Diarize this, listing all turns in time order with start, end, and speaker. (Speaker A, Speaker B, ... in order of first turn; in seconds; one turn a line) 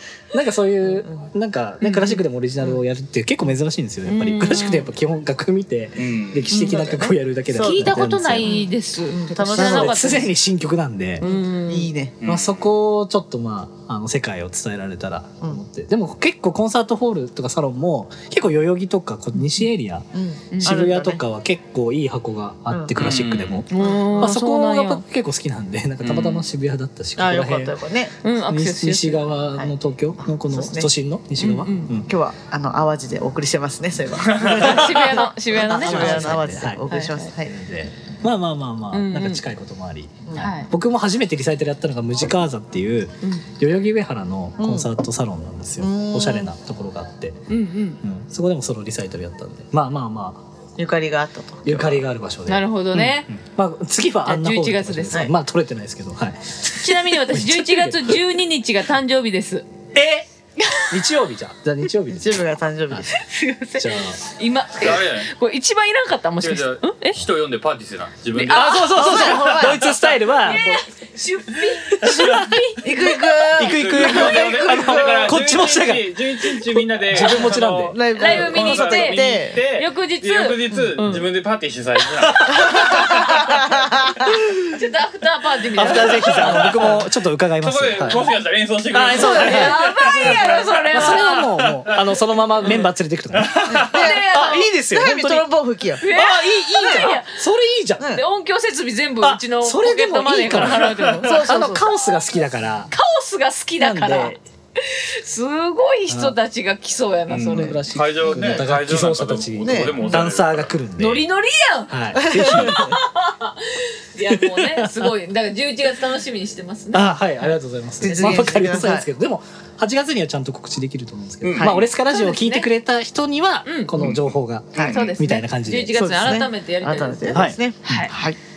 Speaker A: 0.3-8.5
Speaker B: 1.0-1.2
Speaker B: 1.9-2.1
Speaker C: 4.0-4.9
Speaker D: 6.0-6.5
Speaker B: 6.5-10.2
Speaker C: 7.6-10.3
Speaker A: 9.6-11.3
Speaker C: 11.2-11.9
Speaker B: 11.2-12.2
Speaker D: 12.2-12.5
Speaker A: 12.2-20.1
Speaker B: 20.1-21.2
Speaker C: 20.5-20.8
Speaker A: 20.6-27.8
Speaker B: 22.7-23.1
Speaker D: 23.0-23.6
Speaker C: 23.7-25.0
Speaker B: 23.8-24.3
Speaker D: 26.0-26.5
Speaker B: 27.2-28.2
Speaker C: 28.2-29.3
Speaker A: 28.4-32.1
Speaker B: 30.2-30.9
Speaker C: 31.4-31.9
Speaker B: 32.1-37.6
Speaker D: 34.4-34.6
Speaker A: 34.6-36.8
Speaker C: 34.6-37.3
Speaker A: 37.5-47.5
Speaker C: 38.9-39.4
Speaker B: 40.3-40.5
Speaker C: 40.3-40.7
Speaker B: 44.6-44.9
Speaker B: 45.8-46.5
Speaker C: 47.5-48.0
Speaker A: 48.0-50.4
Speaker B: 50.8-52.0
Speaker A: 51.6-58.4
Speaker C: 52.5-53.3
Speaker C: 54.3-55.3
Speaker C: 56.7-59.7
Speaker A: 59.9-60.3
Speaker C: 60.6-60.9
Speaker A: 60.8-63.1
Speaker B: 62.1-63.1
Speaker C: 63.1-67.2
Speaker A: 63.8-64.2
Speaker D: 64.8-65.3
Speaker D: 66.4-69.3
Speaker C: 68.3-69.6
Speaker A: 68.5-70.8
Speaker B: 68.9-69.9
Speaker D: 69.8-70.2
Speaker C: 70.3-73.1
Speaker A: 71.7-78.0
Speaker B: 72.8-75.3
Speaker D: 73.6-83.2
Speaker B: 77.2-79.6
Speaker C: 78.1-81.3
Speaker A: 82.4-83.3
Speaker B: 82.5-84.4
Speaker A: 84.3-84.7
Speaker C: 84.7-86.8
Speaker A: 85.8-88.3
Speaker D: 86.2-86.8
Speaker D: 87.6-89.8
Speaker A: 88.9-95.5
Speaker B: 89.1-90.7
Speaker C: 89.2-91.5
Speaker D: 90.4-92.0
Speaker D: 93.4-93.8
Speaker B: 93.7-96.0
Speaker C: 93.9-94.7
Speaker C: 96.0-97.4
Speaker A: 96.0-98.2
Speaker B: 98.0-98.2
Speaker C: 98.1-101.5
Speaker A: 99.2-102.9
Speaker B: 101.2-101.9
Speaker C: 102.9-107.8
Speaker A: 103.8-104.4
Speaker A: 106.1-106.4
Speaker D: 107.3-110.7
Speaker A: 107.4-111.2
Speaker B: 108.2-108.7
Speaker B: 109.6-110.0
Speaker C: 111.0-118.6
Speaker A: 111.9-113.0
Speaker B: 112.2-112.9
Speaker A: 114.2-115.1
Speaker A: 116.9-126.5
Speaker B: 118.0-119.1
Speaker D: 121.4-121.7
Speaker B: 121.6-121.8
Speaker C: 122.1-122.7
Speaker C: 123.7-123.9
Speaker D: 124.0-124.2
Speaker B: 124.7-125.0
Speaker D: 124.8-125.1
Speaker C: 124.9-128.1
Speaker B: 125.9-128.4
Speaker A: 127.3-128.1